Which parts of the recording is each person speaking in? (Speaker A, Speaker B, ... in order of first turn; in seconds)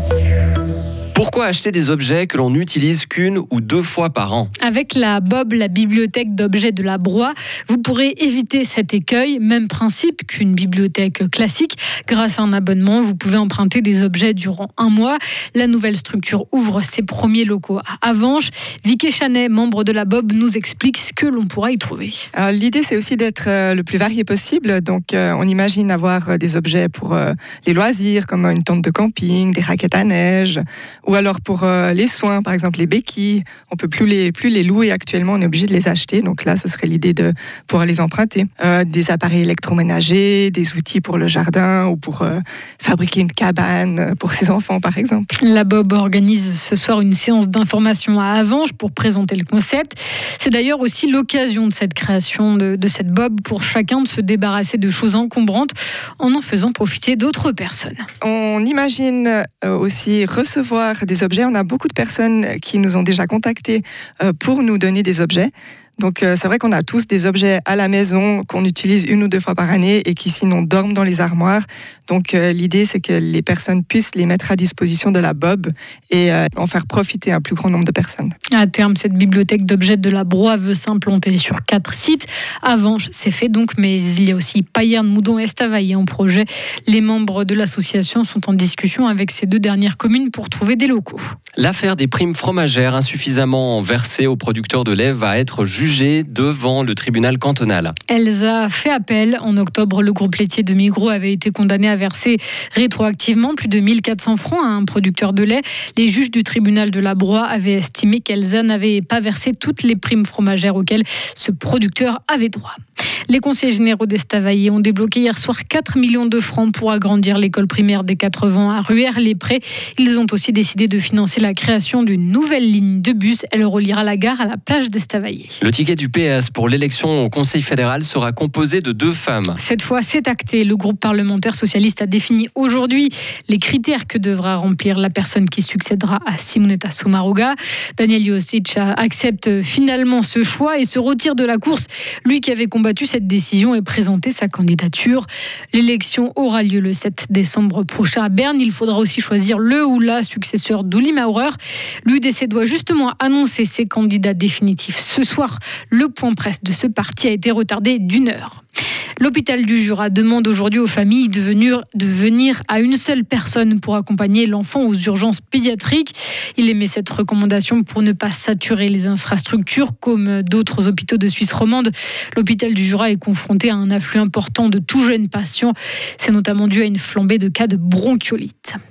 Speaker A: 1.1-4.5, 91.6-97.9, 125.6-129.6
Speaker B: 4.6-22.2, 45.4-58.0, 78.5-91.3, 98.1-112.8, 113.3-125.6, 129.6-158.6, 159.2-178.8
Speaker C: 22.3-45.3, 58.2-78.3